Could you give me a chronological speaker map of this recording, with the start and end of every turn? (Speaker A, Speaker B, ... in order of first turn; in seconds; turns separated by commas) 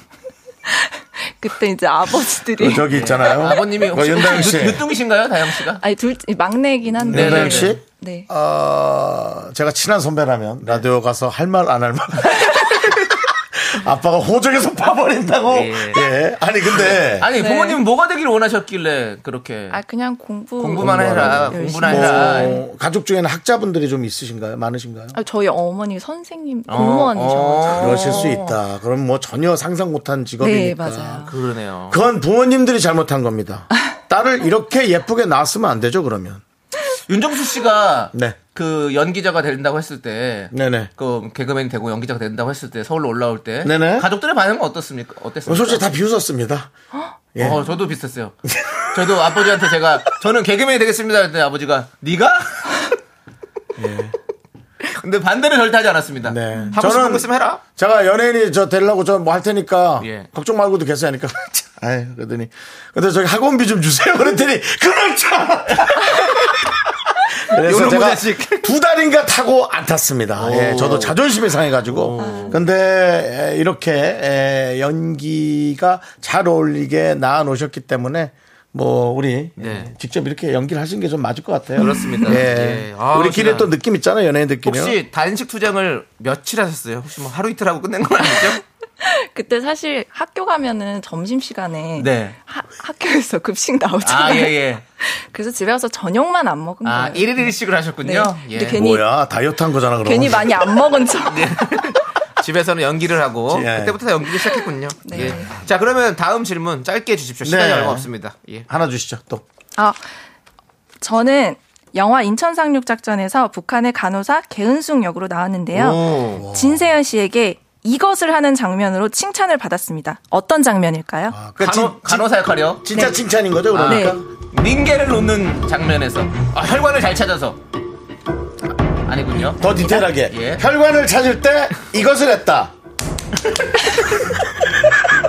Speaker A: 0.7-3.4, Speaker B: 2.5-4.8, Speaker C: 2.9-5.8, Speaker A: 5.7-8.3, Speaker B: 7.0-17.3, Speaker C: 7.1-7.8, Speaker C: 15.5-16.0, Speaker C: 16.7-19.8, Speaker A: 17.3-17.8, Speaker A: 19.7-22.6, Speaker C: 20.6-22.6, Speaker B: 20.8-25.2, Speaker A: 25.1-28.5, Speaker C: 26.7-28.5, Speaker B: 27.7-31.3, Speaker A: 30.4-31.3, Speaker C: 31.2-32.0, Speaker B: 31.9-36.4, Speaker C: 37.1-45.9, Speaker B: 40.5-40.9, Speaker B: 43.6-44.1, Speaker B: 45.5-46.7, Speaker C: 47.4-48.3, Speaker B: 48.4-49.7, Speaker C: 48.9-52.9, Speaker B: 53.8-54.1, Speaker C: 54.8-57.6, Speaker B: 56.2-85.0, Speaker C: 60.0-60.3, Speaker C: 67.5-68.7, Speaker C: 70.3-71.2, Speaker C: 71.9-72.6, Speaker A: 72.2-72.6, Speaker C: 79.6-79.9, Speaker C: 81.8-83.7, Speaker A: 81.8-82.4, Speaker C: 84.6-88.6, Speaker A: 89.0-99.0, Speaker C: 92.0-92.4, Speaker C: 94.0-94.8, Speaker C: 96.8-98.8, Speaker B: 98.8-101.0, Speaker A: 100.0-101.9, Speaker C: 101.1-108.7, Speaker B: 103.5-104.0, Speaker A: 105.0-105.5, Speaker B: 107.4-108.1, Speaker B: 108.7-109.4, Speaker A: 111.0-121.4, Speaker C: 115.7-116.4, Speaker B: 116.4-116.9, Speaker B: 121.3-124.2, Speaker C: 121.6-122.8, Speaker C: 123.7-127.6, Speaker A: 123.9-124.2, Speaker C: 129.1-129.7, Speaker B: 129.6-132.7, Speaker C: 130.2-130.6, Speaker B: 134.2-134.9